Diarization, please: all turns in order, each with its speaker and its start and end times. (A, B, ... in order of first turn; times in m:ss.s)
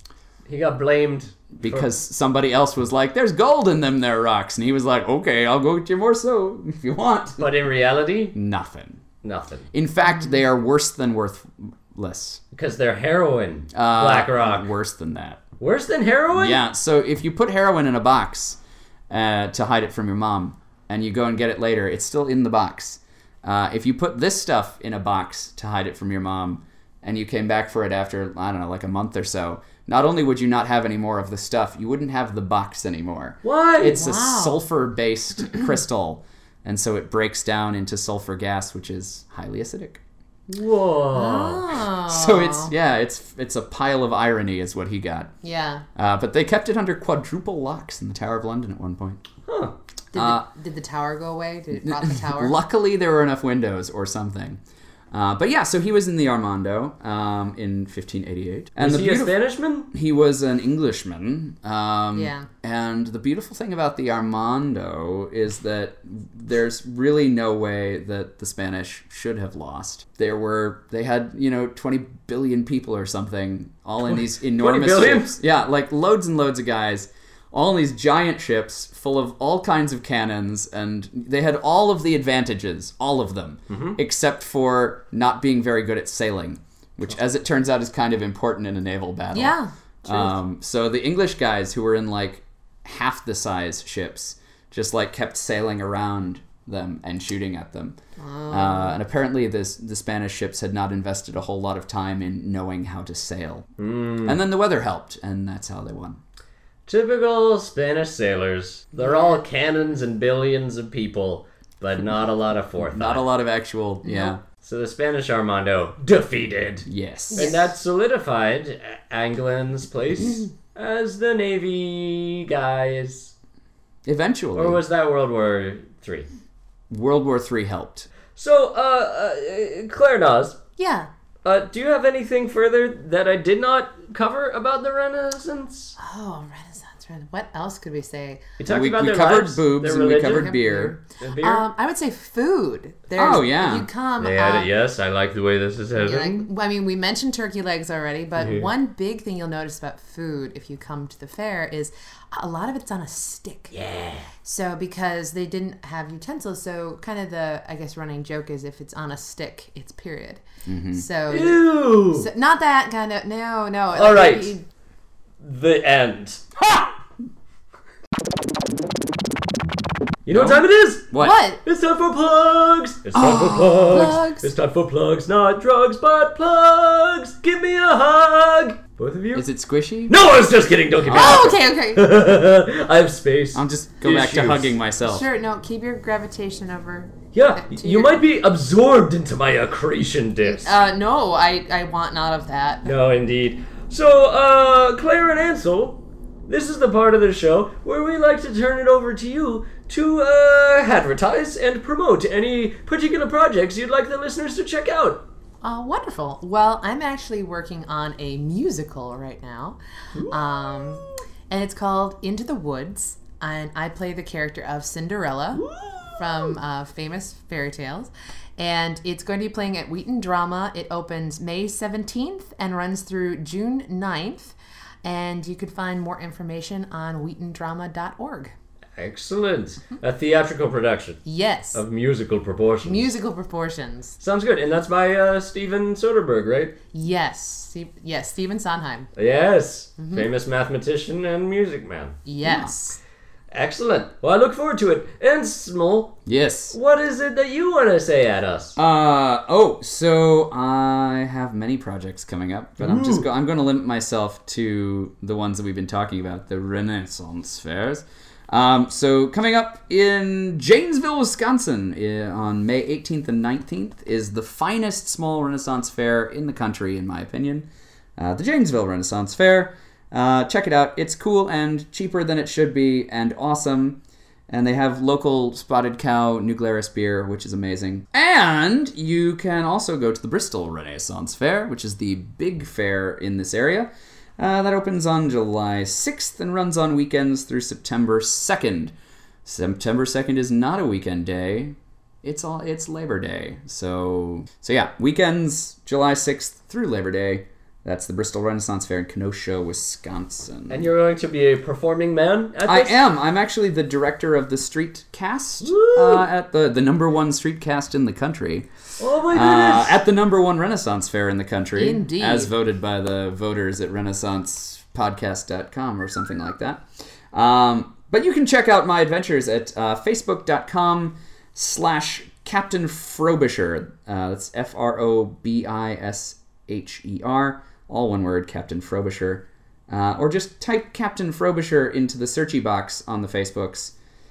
0:00.5-0:01.9 A
0:01.6-0:07.5 B
0:07.4-0:08.3 A
0:08.3-0:09.0 B
0:09.2-0:09.7 A
0:09.7-0:12.4 B
0:12.5-0:14.7 A
0:13.7-0:15.4 B
0:15.6-0:16.6 A
0:16.3-0:18.6 B
0:19.1-0:40.0 B
0:33.4-0:34.0 A
0:33.8-0:34.6 C
0:40.5-0:41.7 A
0:41.1-0:42.7 C
0:41.9-0:45.3 B
0:45.4-0:45.8 C
0:46.0-0:49.2 B
0:49.5-0:49.7 A
0:50.1-0:52.6 C
0:50.1-0:50.4 B
0:51.8-0:59.3 B
0:58.8-0:59.9 A
0:59.9-1:38.0 B
1:02.1-1:02.5 C
1:14.0-1:15.4 A
1:23.7-1:24.0 A
1:29.3-1:30.3 C
1:38.2-1:39.0 C
1:38.5-1:43.7 B
1:43.8-1:44.4 A
1:44.2-1:46.2 B
1:46.9-1:53.2 A
1:49.0-1:49.4 C
1:52.8-1:54.4 B
1:54.0-1:54.3 C
1:54.6-2:03.3 A
1:56.8-1:57.5 B
1:57.3-1:57.7 C
2:04.0-2:04.8 B
2:04.5-2:06.3 A
2:06.9-2:08.1 B
2:08.4-2:10.6 A
2:10.8-2:11.1 C
2:11.4-2:16.0 A
2:16.0-2:18.4 C
2:18.6-2:21.7 A
2:18.7-2:21.0 B
2:21.4-2:24.7 C
2:23.2-2:23.9 B
2:24.2-2:26.5 A
2:26.0-2:33.7 C
2:28.4-2:28.7 A
2:33.7-2:34.3 A
2:34.4-2:44.6 C
2:40.6-2:41.0 B
2:41.3-2:42.3 A
2:43.9-2:44.5 A
2:45.4-2:46.4 A
2:46.6-2:46.9 B
2:50.2-2:59.5 A
2:50.3-2:51.4 B
2:51.2-2:51.6 C
2:53.1-2:54.1 B
2:53.8-2:54.5 C
2:59.3-3:00.2 B
3:00.1-3:04.7 A
3:01.0-3:01.6 B
3:01.1-3:02.1 C
3:03.5-3:05.2 B
3:05.0-3:08.2 C
3:07.3-3:10.8 A
3:10.4-3:12.9 C
3:12.8-3:25.2 A
3:25.6-3:35.6 C
3:30.1-3:31.2 A
3:35.6-3:36.5 A
3:36.2-3:48.5 C
3:49.0-3:53.1 A
3:51.2-3:51.8 C
3:52.8-3:54.2 C
3:54.2-3:56.8 A
3:56.9-3:59.1 C
3:59.2-4:02.2 A
4:00.0-4:00.2 C
4:02.2-4:03.0 C
4:02.4-4:02.8 B
4:03.5-4:08.8 A
4:06.2-4:06.8 B
4:08.8-4:48.9 B
4:12.8-4:13.3 A
4:49.4-5:00.9 B
5:00.7-5:03.0 A
5:02.6-5:08.7 B
5:05.6-5:06.3 A
5:09.0-5:10.0 A
5:09.3-5:33.9 B
5:11.8-5:12.5 C